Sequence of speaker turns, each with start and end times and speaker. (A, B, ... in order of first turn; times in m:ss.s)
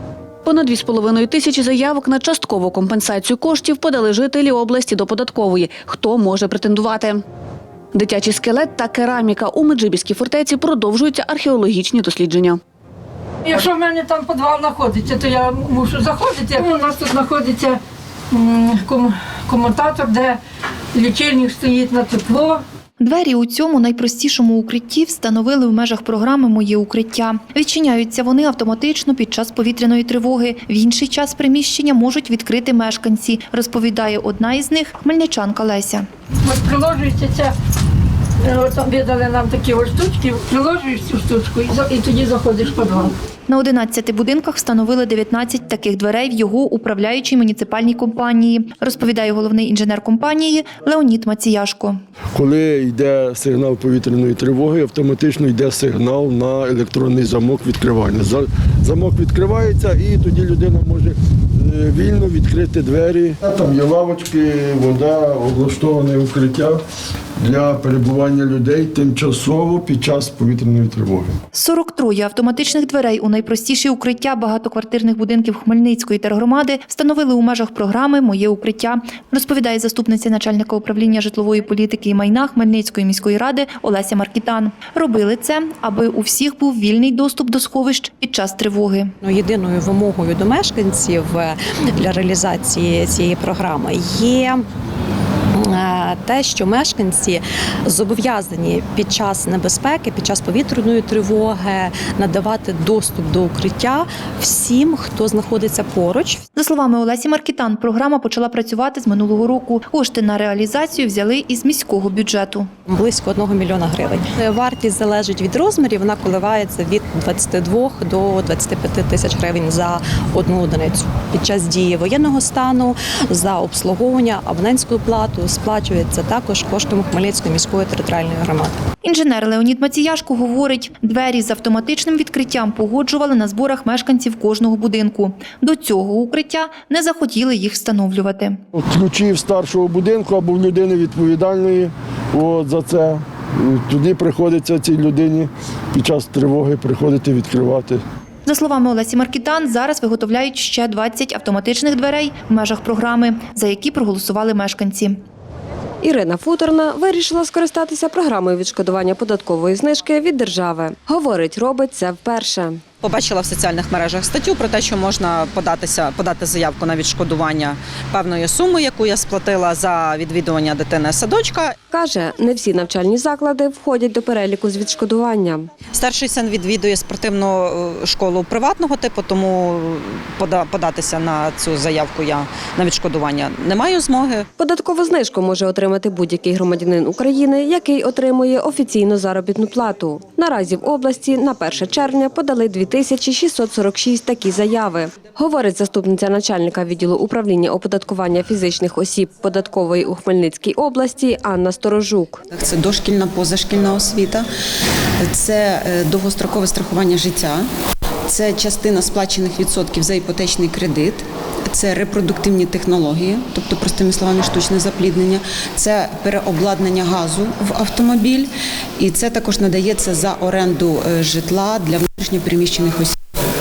0:00.5-0:07.2 A
0:08.0-0:12.5 A
0:13.5-0:17.8 B
0:18.3-0:20.4 B
0:20.9-0:22.6 B
0:23.0-0:36.1 C
0:36.5-0:37.5 B
0:38.4-0:43.1 B
0:43.5-0:52.0 C
0:52.4-1:06.8 D
1:07.4-1:11.4 D
1:11.5-1:29.1 C
1:29.2-1:34.6 E
1:35.6-1:46.4 E
1:46.6-1:52.7 C
1:52.9-2:08.7 E
2:09.0-2:18.6 C
2:18.8-2:28.0 D
2:28.5-2:35.2 C
2:36.0-2:42.8 F
2:43.0-2:51.7 G
2:51.9-2:55.6 F
2:56.0-3:04.4 G
3:04.6-3:22.4 F
3:22.5-3:24.5 H
3:25.3-3:27.7 H
3:28.3-3:43.2 H